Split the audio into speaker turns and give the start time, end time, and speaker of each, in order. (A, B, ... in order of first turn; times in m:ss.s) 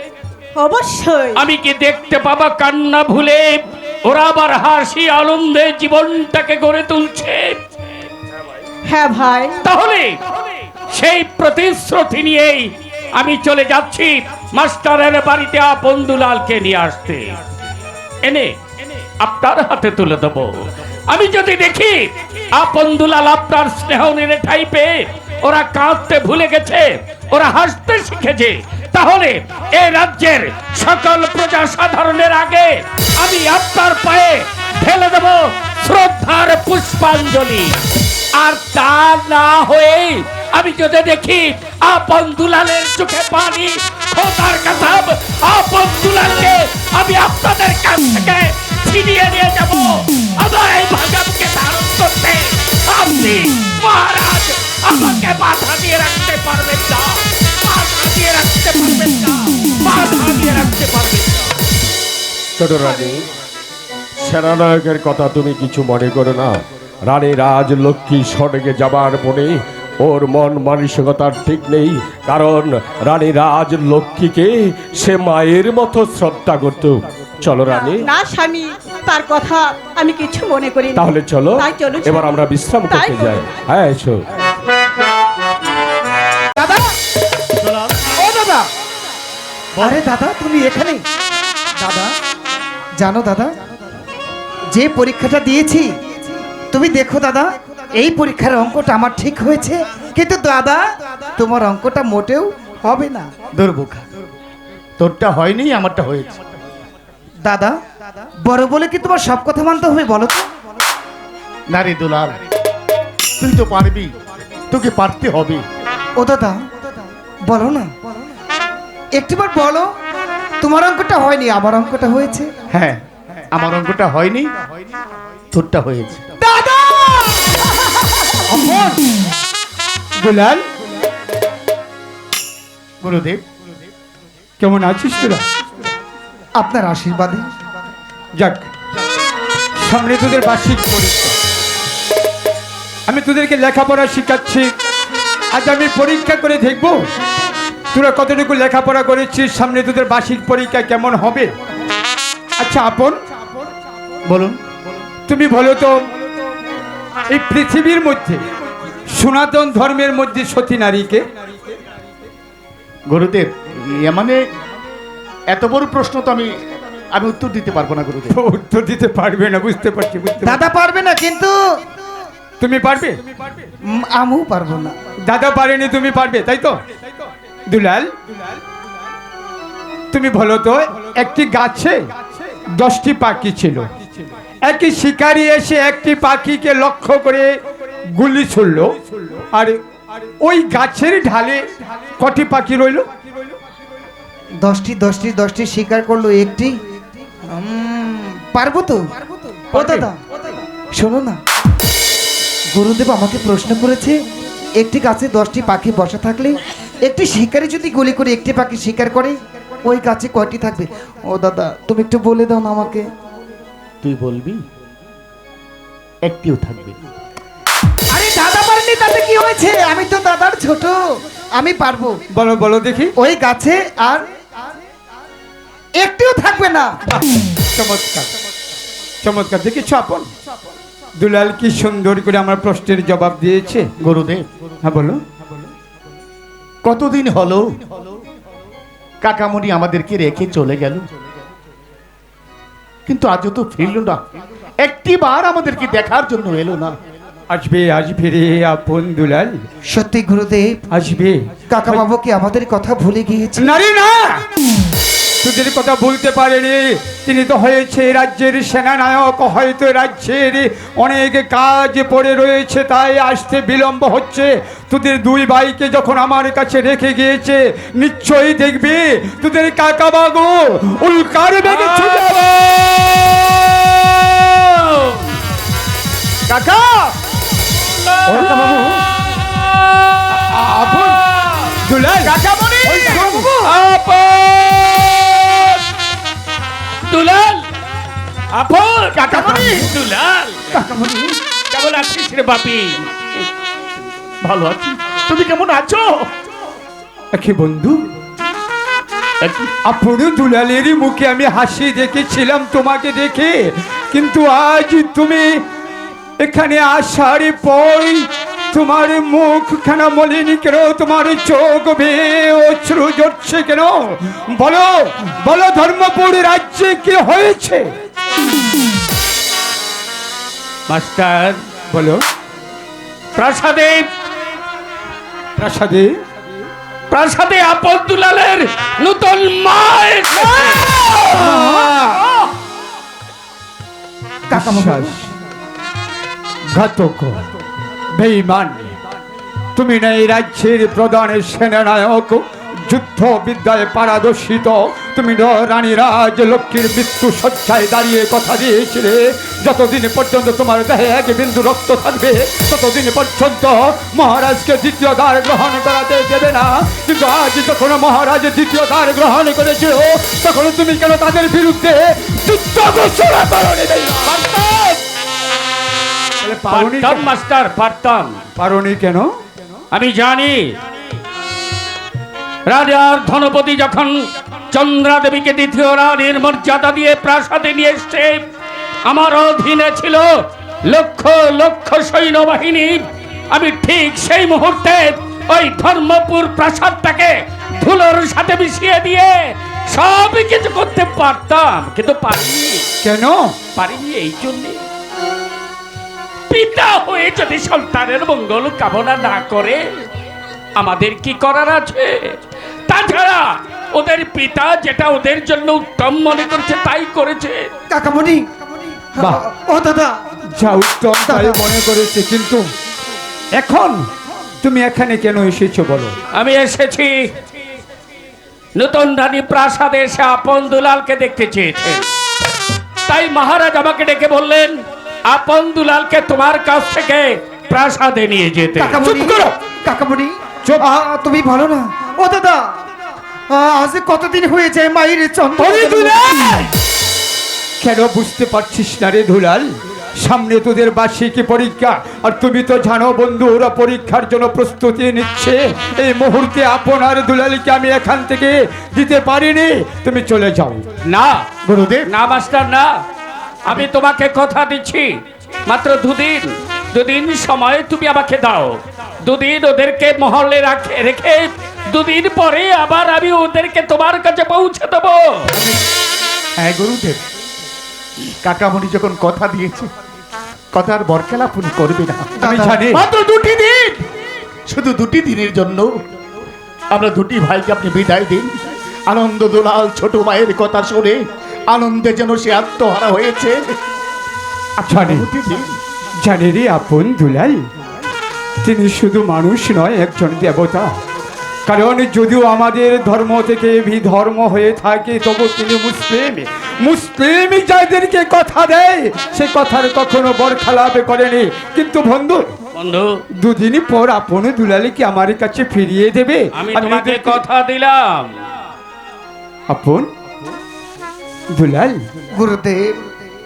0:00.6-0:01.4 A
0:01.4-0:07.6 B
0:08.9-0:09.6 A
0:09.6-0:10.2 B
0:10.9-0:17.4 B
0:18.2-0:18.5 B
0:19.2-0:37.8 B
0:38.4-1:01.5 B
1:02.6-1:03.2 C
1:04.2-1:06.6 C
1:07.1-1:18.1 C
1:17.7-1:22.3 A
1:21.0-1:24.2 C
1:22.9-1:23.4 A
1:26.6-1:26.9 D
1:27.6-1:28.1 E
1:28.2-1:28.7 D
1:29.8-1:31.0 D
1:31.8-1:32.1 D
1:33.0-1:33.6 D
1:34.7-1:43.3 D
1:43.5-1:44.1 E
1:45.0-1:46.5 E
1:47.4-1:50.5 D
1:51.7-1:52.4 E
1:53.4-1:54.1 E
1:54.7-1:55.6 E
1:56.2-1:58.2 D
1:59.2-1:59.9 D
2:00.6-2:02.5 D
2:02.7-2:05.0 E
2:05.5-2:06.2 E
2:06.4-2:07.7 D
2:08.5-2:09.0 F
2:10.2-2:10.6 F
2:13.0-2:13.4 E
2:14.6-2:15.4 F
2:16.6-2:17.5 D
2:18.4-2:18.7 F
2:19.8-2:21.4 F
2:23.1-2:24.7 F
2:25.5-2:27.0 F
2:27.9-2:31.5 F
2:32.6-2:33.2 F
2:34.3-2:34.6 E
2:35.3-2:36.0 F
2:37.3-2:38.5 F
2:39.1-2:41.3 F
2:43.1-2:44.4 E
2:45.5-2:46.5 E
2:47.1-2:48.3 E
2:48.3-2:50.6 F
2:50.4-2:51.5 D
2:52.6-2:53.2 F
2:53.9-2:54.9 D
2:55.3-2:56.8 F
2:57.7-2:58.4 F
3:00.1-3:02.0 F
3:02.6-3:04.0 F
3:04.6-3:07.5 F
3:08.1-3:09.8 F
3:10.4-3:11.6 F
3:12.2-3:13.1 F
3:14.6-3:16.8 D
3:17.3-3:21.4 D
3:19.8-3:20.1 E
3:22.7-3:24.2 D
3:24.8-3:33.1 D
3:34.0-3:34.6 E
3:36.2-3:37.0 E
3:38.1-3:41.0 D
3:41.6-3:42.2 D
3:42.3-3:43.1 F
3:43.2-3:44.3 D
3:46.0-3:46.9 D
3:47.1-3:48.3 F
3:49.2-3:50.3 F
3:51.2-3:53.9 F
3:54.0-3:54.4 E
3:54.8-3:55.2 F
3:56.8-3:57.8 E
3:59.2-4:01.0 E
4:03.1-4:04.2 E
4:04.8-4:07.0 E
4:07.5-4:09.6 F
4:09.9-4:10.8 D
4:10.9-4:12.0 F
4:11.7-4:13.8 D
4:13.6-4:14.4 F
4:15.4-4:32.4 F
4:31.7-4:35.3 B
4:36.5-4:37.1 E
4:38.3-4:38.9 F
4:38.3-4:38.9 D
4:39.4-4:41.6 B
4:40.4-4:41.1 F
4:41.8-4:42.4 F
4:42.2-4:43.2 E
4:42.9-4:43.5 F
4:43.0-4:43.7 D
4:43.6-4:45.8 B
4:47.1-4:47.7 B
4:48.5-4:50.6 B
4:49.2-4:49.9 E
4:50.7-4:51.2 D
4:51.7-4:53.1 B
4:54.4-4:56.3 E
4:57.3-4:58.0 F
4:59.4-4:59.7 E
4:59.9-5:05.6 F
5:06.4-5:17.9 F
5:20.9-5:21.6 B
5:21.9-5:22.2 F
5:23.4-5:24.1 B
5:25.6-5:26.1 F
5:27.1-5:31.9 B
5:31.2-5:32.2 F
5:34.5-5:35.2 D
5:34.5-5:35.2 F
5:36.7-5:37.4 F
5:38.1-5:38.9 F
5:39.8-6:04.4 F
6:04.3-6:05.0 B
6:06.4-6:07.3 F
6:06.7-6:08.4 B
6:08.6-6:09.3 F
6:09.9-6:10.7 B
6:12.7-6:14.1 B
6:14.7-6:18.4 B
6:19.1-6:20.3 B
6:20.9-6:32.9 B
6:33.0-6:33.6 F
6:33.8-6:34.8 B
6:36.5-6:39.8 B
6:40.8-6:42.4 B
6:42.9-6:47.7 B
6:47.9-6:50.1 D
6:49.2-6:49.4 F
6:50.5-6:52.7 F
6:51.2-6:51.6 D
6:53.6-6:54.1 F
6:54.6-6:56.2 F
6:56.3-6:57.1 B
6:58.8-7:02.0 B
7:03.1-7:09.1 B
7:08.8-7:12.7 D
7:09.0-7:09.5 F
7:13.5-7:16.6 D
7:15.6-7:16.7 F
7:17.8-7:30.8 F
7:31.1-7:31.5 B
7:31.6-7:32.1 E
7:32.1-7:32.9 B
7:33.7-7:35.1 B
7:35.7-7:45.5 B
7:46.6-7:47.2 E
7:48.4-7:49.9 E
7:50.7-7:52.3 E
7:52.4-7:53.1 F
7:52.4-7:52.8 D
7:52.9-7:54.0 E
7:54.7-7:55.9 E
7:56.9-7:58.5 E
7:59.1-8:03.7 E
8:04.8-8:05.3 F
8:05.0-8:05.8 E
8:06.2-8:07.7 F
8:08.6-8:10.9 F
8:11.7-8:22.4 F
8:22.8-8:23.2 B
8:23.4-8:27.4 F
8:26.6-8:28.4 B
8:29.7-8:30.1 F
8:31.5-8:32.0 F
8:32.4-8:33.0 D